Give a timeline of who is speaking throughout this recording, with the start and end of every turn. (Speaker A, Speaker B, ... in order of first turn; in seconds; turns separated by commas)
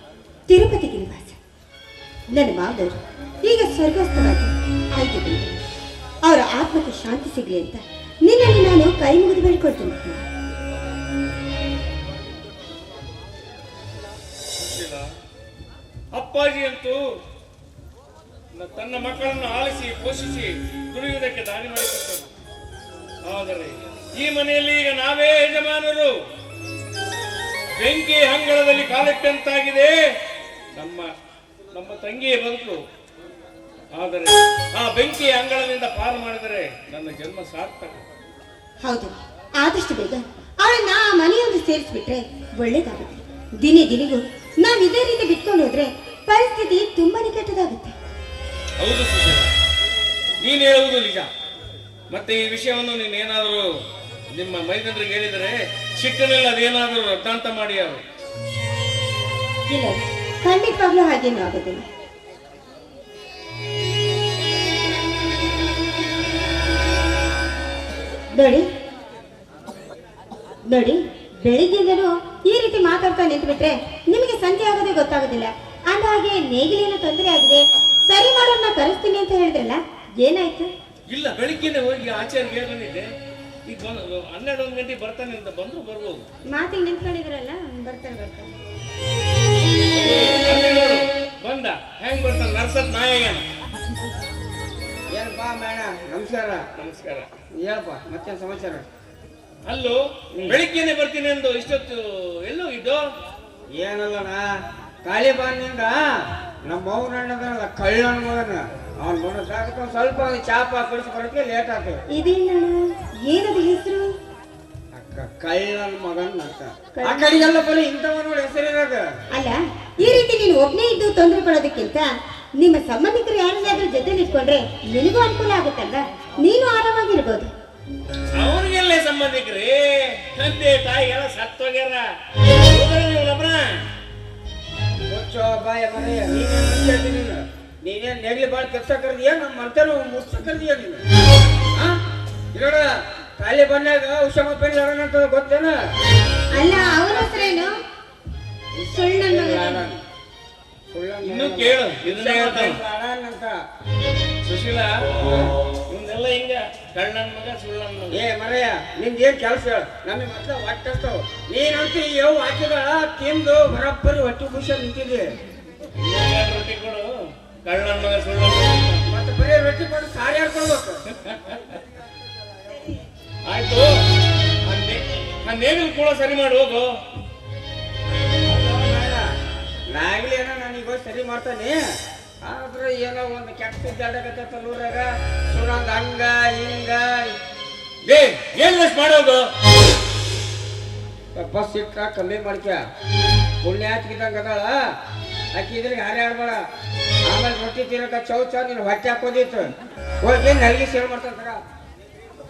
Speaker A: 0.5-1.4, Speaker A: 2.3-5.6, Speaker A: 6.3-10.2, Speaker B: 14.6-15.1, Speaker B: 16.1-17.0, Speaker B: 18.5-22.3, Speaker B: 23.2-26.1, Speaker B: 27.8-29.9, Speaker B: 30.8-31.1, Speaker B: 31.7-32.8, Speaker B: 34.0-38.0, Speaker A: 38.8-47.9, Speaker B: 48.8-49.5, Speaker B: 50.4-51.3, Speaker B: 52.1-53.6, Speaker B: 54.3-58.0, Speaker A: 59.7-61.8, Speaker A: 68.4-68.6, Speaker A: 70.7-80.7, Speaker B: 81.1-83.1, Speaker B: 83.7-86.2, Speaker A: 86.5-88.5, Speaker B: 90.0-93.4, Speaker C: 95.1-96.6, Speaker B: 96.8-97.3, Speaker C: 97.5-98.8, Speaker B: 99.7-103.0, Speaker C: 103.7-104.4, Speaker C: 105.0-106.0, Speaker C: 106.6-112.0, Speaker A: 112.1-114.1, Speaker C: 114.9-119.0, Speaker A: 116.9-117.6, Speaker A: 119.3-122.1, Speaker A: 122.6-127.5, Speaker B: 128.4-132.0, Speaker B: 132.7-133.7, Speaker C: 135.1-141.0, Speaker C: 142.5-145.8, Speaker A: 146.5-147.7, Speaker C: 147.1-147.3, Speaker C: 148.8-150.0, Speaker A: 148.9-149.9, Speaker C: 150.9-153.6, Speaker B: 151.2-152.8, Speaker B: 154.4-158.2, Speaker C: 158.1-165.2, Speaker B: 166.0-167.1, Speaker B: 167.6-169.0, Speaker C: 169.1-171.0, Speaker B: 171.2-171.6, Speaker B: 173.4-173.9, Speaker B: 174.6-176.9, Speaker C: 178.5-179.2, Speaker C: 179.9-181.8, Speaker C: 182.4-187.4, Speaker B: 188.0-189.5, Speaker C: 191.3-192.8, Speaker C: 193.6-194.7, Speaker C: 195.5-196.6, Speaker C: 197.3-199.7, Speaker C: 200.2-201.6